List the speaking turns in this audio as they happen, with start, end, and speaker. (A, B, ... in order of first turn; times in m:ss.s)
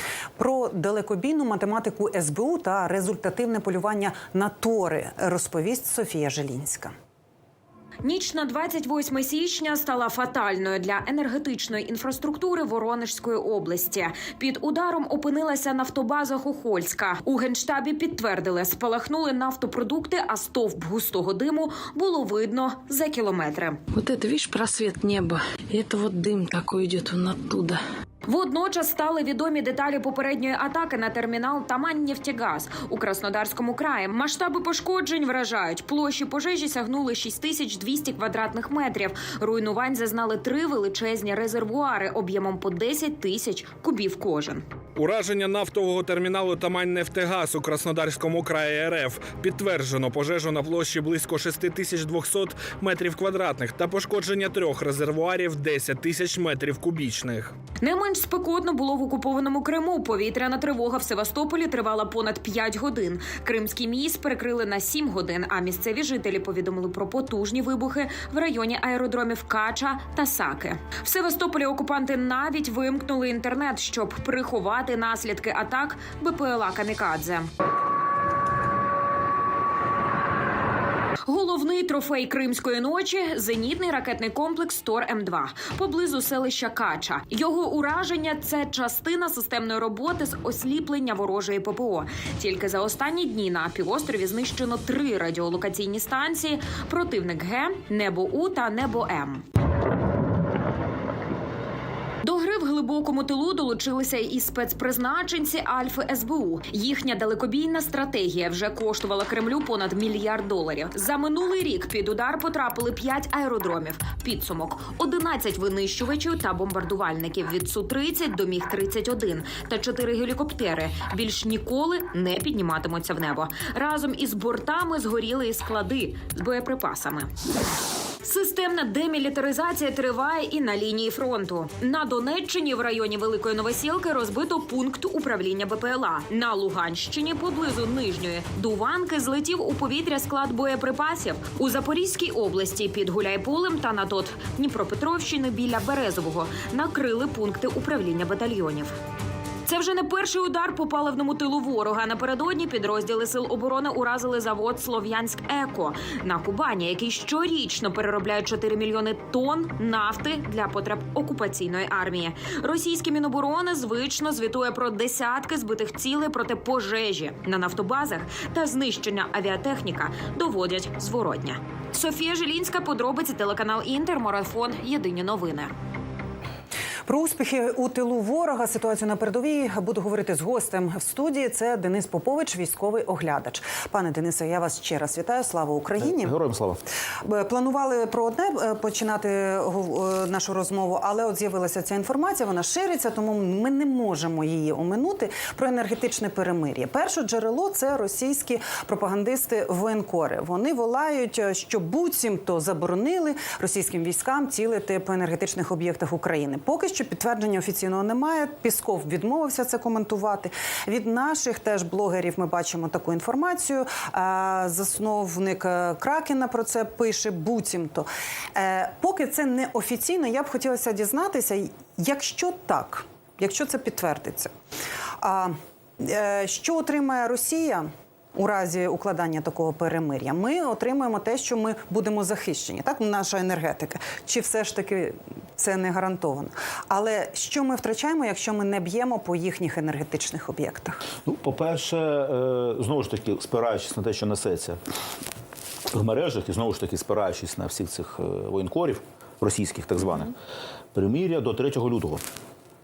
0:00.4-0:06.9 A
0:08.0-0:23.8 B
0:23.9-0:27.8 C
0:28.3-0:44.6 B
0:45.0-0:57.6 D
0:57.8-1:17.5 B
1:21.3-1:39.4 B
1:42.2-2:07.3 B
2:08.2-2:29.0 B
2:29.7-2:55.7 B
2:57.1-3:06.3 A
3:06.0-3:06.8 E
3:07.2-3:44.5 A
3:45.2-4:01.0 A
4:01.2-4:04.8 E
4:05.9-4:10.3 E
4:10.9-4:12.2 E